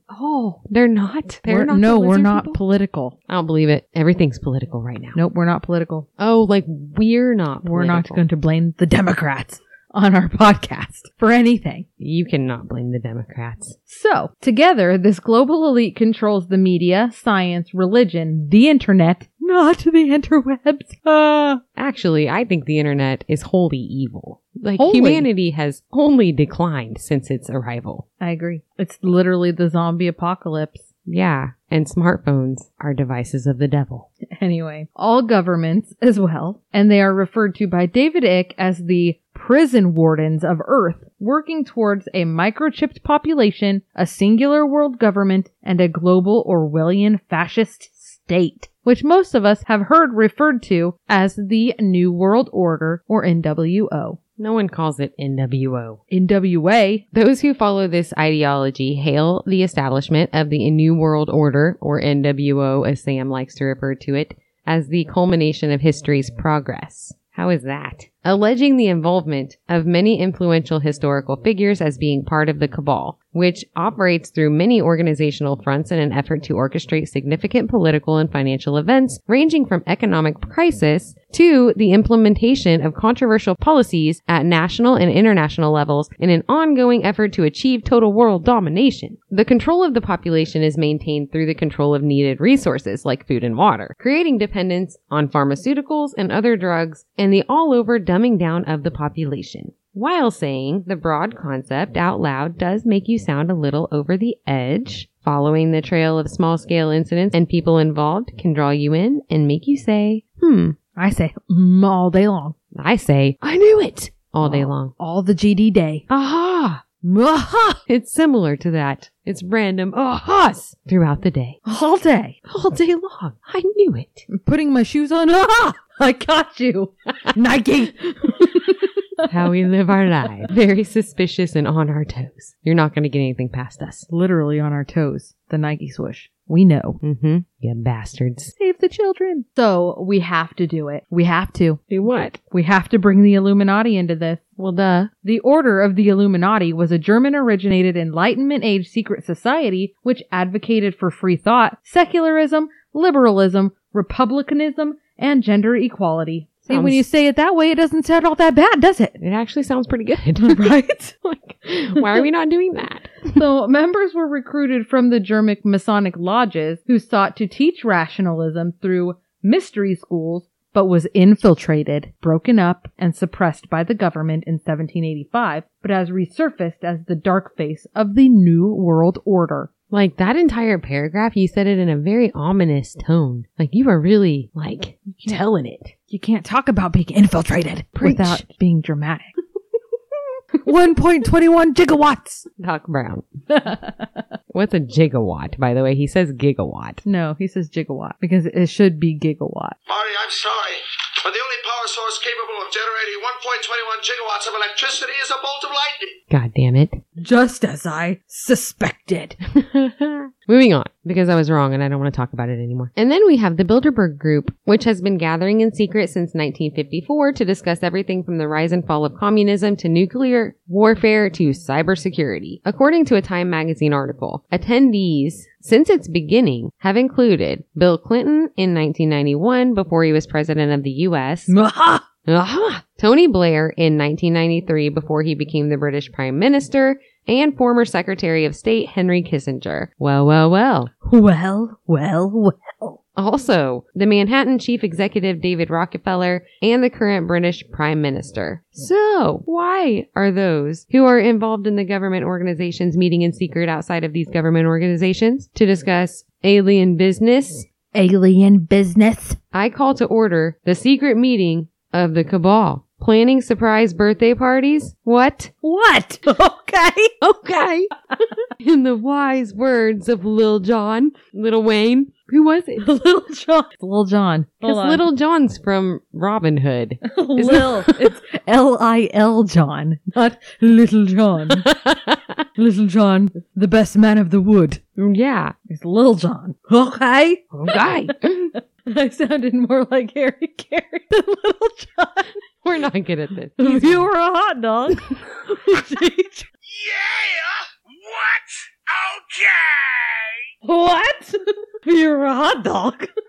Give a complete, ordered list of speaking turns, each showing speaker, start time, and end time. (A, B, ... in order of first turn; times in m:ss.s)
0:00.1-0:02.6 A
0:01.4-0:03.1 B
0:03.3-0:05.2 A
0:05.1-0:06.1 B
0:06.2-0:08.2 A
0:07.6-0:11.8 B
0:12.0-0:13.8 A
0:13.9-0:21.6 B
0:21.8-0:28.0 A
0:24.8-0:25.3 B
0:28.2-0:30.8 B
0:31.0-0:34.1 A
0:34.3-0:54.2 B
0:54.4-0:56.0 A
0:56.1-0:57.0 B
0:57.1-1:50.8 A
1:51.0-1:52.5 B
1:52.7-1:54.9 A
1:54.4-1:56.0 B
1:56.1-1:56.8 A
1:57.0-1:57.8 B
1:57.9-2:01.6 A
2:01.6-2:02.4 B
2:02.4-2:04.3 A
2:04.3-2:09.2 B
2:09.2-2:14.0 A
2:14.1-2:17.0 B
2:17.0-2:18.5 A
2:18.6-2:21.8 B
2:21.9-2:22.4 A
2:22.5-2:24.4 B
2:24.6-2:25.1 A
2:25.2-2:39.2 B
2:36.6-2:37.0 A
2:39.2-2:43.4 A
2:40.4-2:41.1 B
2:43.3-2:59.7 B
2:59.9-3:05.9 A
3:05.0-3:05.4 B
3:06.1-3:09.3 B
3:08.0-3:08.4 A
3:10.6-3:12.5 B
3:12.6-3:13.2 A
3:13.5-3:14.0 B
3:14.5-3:17.0 A
3:17.0-3:19.8 B
3:19.9-3:26.1 C
3:26.3-3:27.0 A
3:27.2-3:29.4 B
3:29.5-3:51.5 A
3:51.5-3:52.0 B
3:52.2-4:00.9 A
4:01.0-4:03.0 B
4:03.2-4:17.7 A
4:17.9-4:19.4 B
4:19.5-4:25.5 A
4:25.6-4:27.1 B
4:27.2-4:27.9 A
4:28.6-4:32.9 A
4:32.8-4:35.0 B
4:34.6-4:38.1 A
4:37.1-4:41.6 B
4:41.6-4:42.4 A
4:42.6-4:44.8 B
4:45.0-4:45.5 A
4:45.7-4:52.3 B
4:47.5-4:48.5 A
4:52.6-4:54.0 A
4:53.6-4:56.5 B
4:56.7-5:00.0 C
5:00.6-5:03.1 B